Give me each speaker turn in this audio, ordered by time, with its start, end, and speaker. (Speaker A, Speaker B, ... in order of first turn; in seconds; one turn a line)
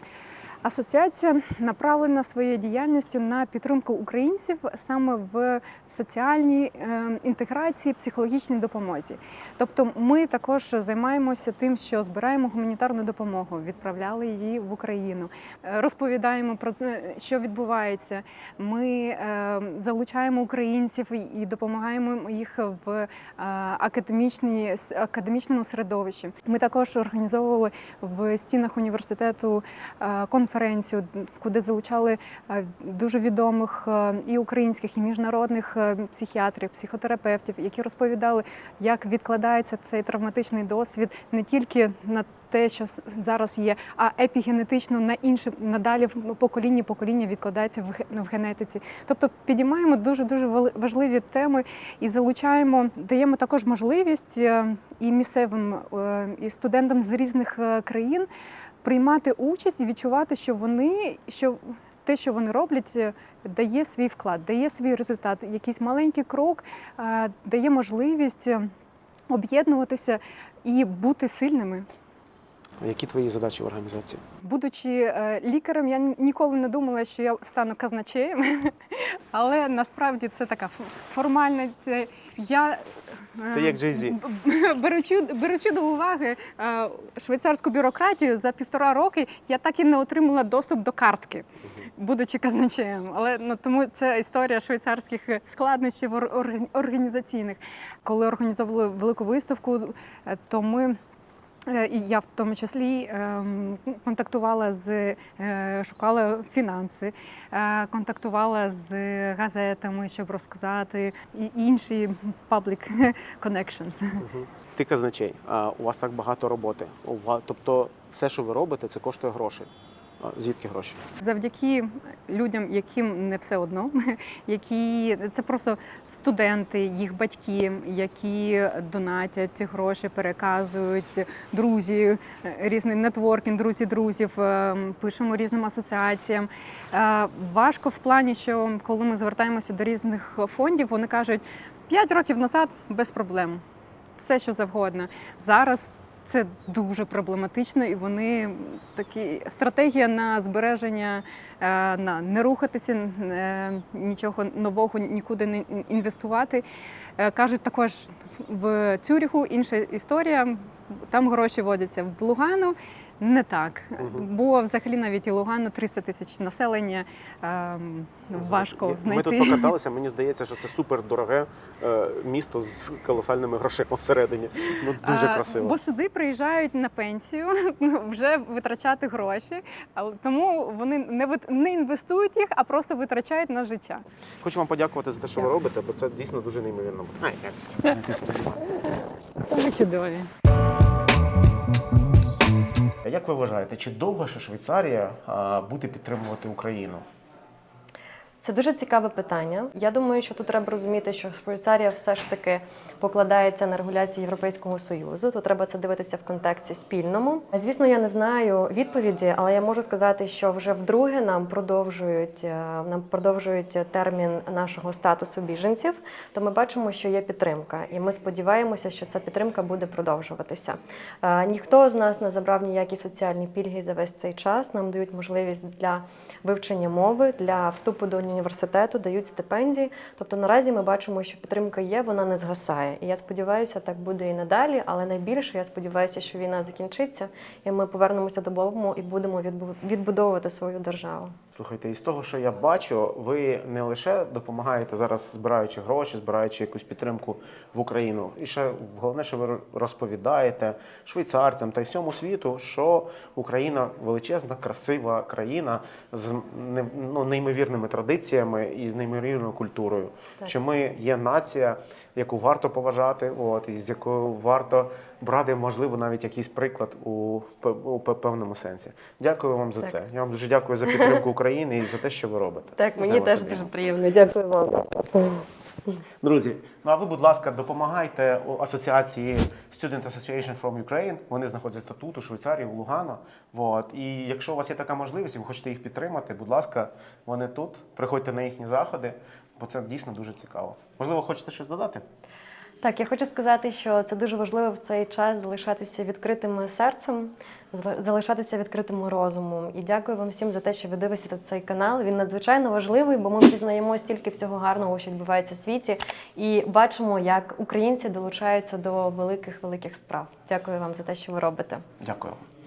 Speaker A: 0.6-58.3
Speaker A: 58.8-68.7
Speaker A: 69.3-71.9
Speaker B: 72.8-74.2
Speaker A: 74.4-91.5
Speaker B: 83.5-84.2
Speaker A: 92.0-101.0
Speaker A: 101.7-114.2
Speaker B: 114.2-119.7
Speaker B: 120.2-121.0
Speaker A: 121.2-143.6
Speaker A: 144.2-156.7
Speaker A: 157.2-169.7
Speaker B: 164.0-164.3
Speaker B: 168.3-175.8
Speaker A: 175.0-184.1
Speaker B: 184.4-188.7
Speaker A: 189.5-190.3
Speaker B: 193.0-197.0
Speaker C: 198.4-241.3
Speaker B: 241.5-273.7
Speaker C: 270.9-271.2
Speaker C: 272.8-276.0
Speaker B: 276.2-292.0
Speaker C: 292.8-311.8
Speaker B: 312.0-312.4